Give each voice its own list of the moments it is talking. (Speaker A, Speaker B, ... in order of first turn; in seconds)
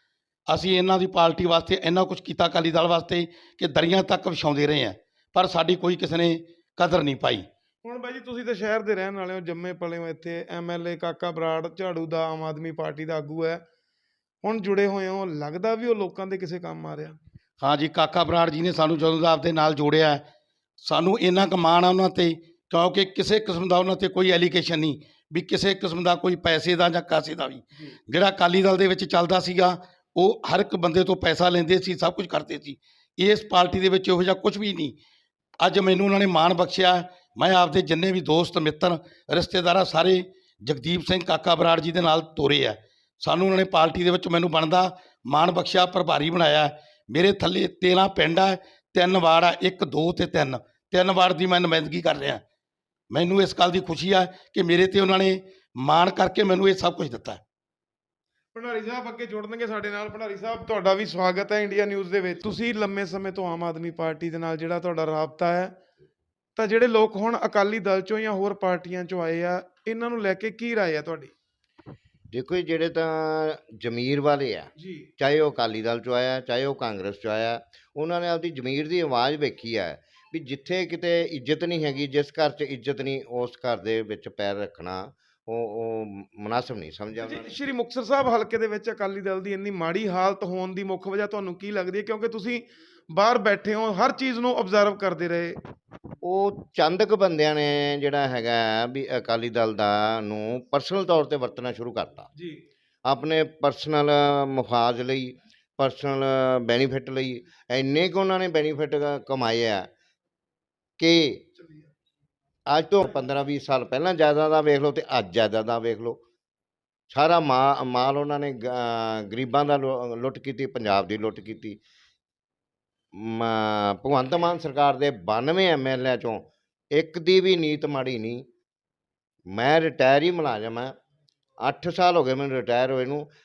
Speaker A: 0.5-7.5, 17.6-20.2, 20.8-35.0, 35.6-52.4, 53.1-57.4
Speaker B: 7.8-13.6, 14.4-17.2, 58.5-65.8, 66.6-71.3, 74.8-75.1, 87.2-95.6, 102.4-102.6, 111.6-111.9
Speaker C: 72.3-87.5, 96.2-102.3, 103.1-109.9, 111.0-111.4, 112.7-116.2, 117.1-121.8, 123.2-128.4, 129.5-130.9, 131.6-133.3